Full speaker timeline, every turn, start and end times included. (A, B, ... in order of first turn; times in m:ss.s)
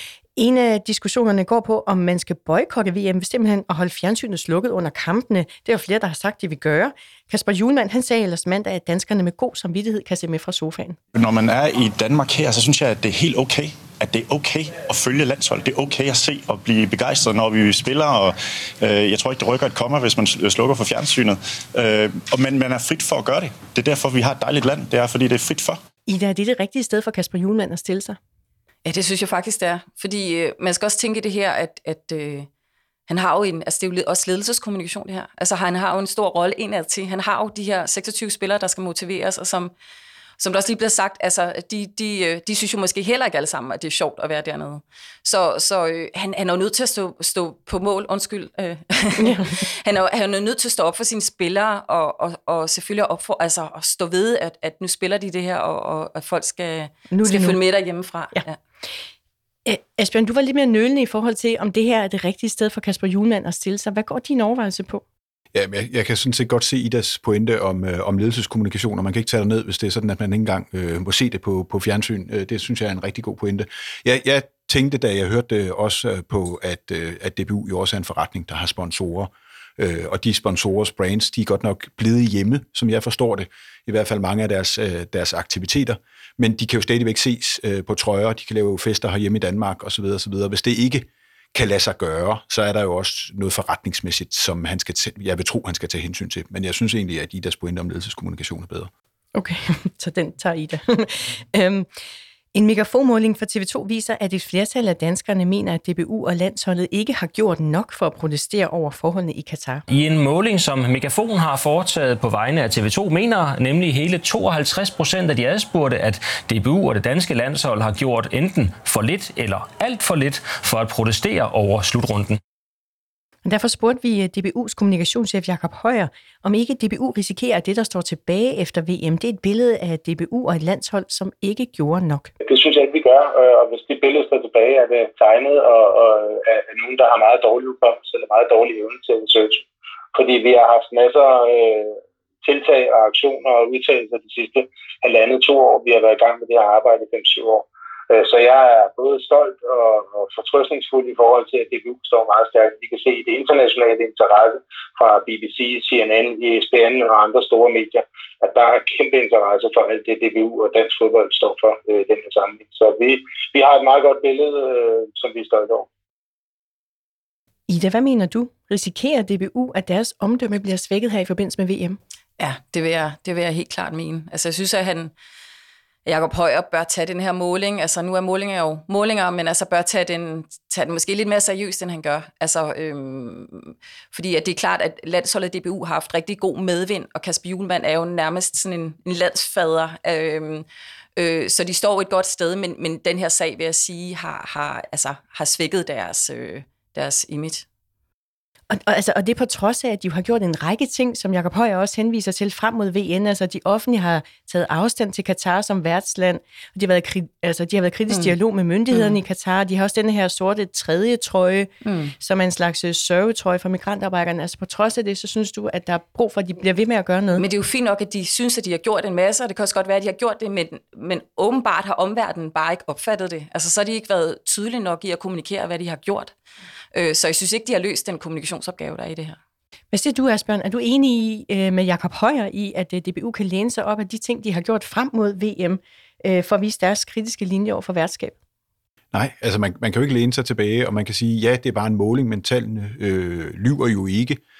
0:00.4-0:11.0 A
0:11.1-0:25.8 B
0:26.0-0:28.2 A
0:28.8-0:32.5 C
0:33.1-0:39.7 C
0:40.4-0:58.6 C
0:57.1-0:57.6 A
0:59.6-1:05.0 A
1:05.5-1:38.9 D
1:39.3-1:41.9 A
1:42.5-1:49.8 A
1:49.9-2:02.4 E
2:03.4-2:12.3 A
2:12.4-2:45.9 F
2:47.7-2:52.0 A
2:52.4-2:55.1 C
2:56.0-3:17.6 C
3:18.7-3:37.4 A
3:28.1-3:28.3 C
3:28.9-3:29.2 C
3:31.8-3:32.1 C
3:37.4-3:46.3 C
3:46.9-3:49.4 C
3:49.9-3:58.4 A
3:59.1-4:04.4 D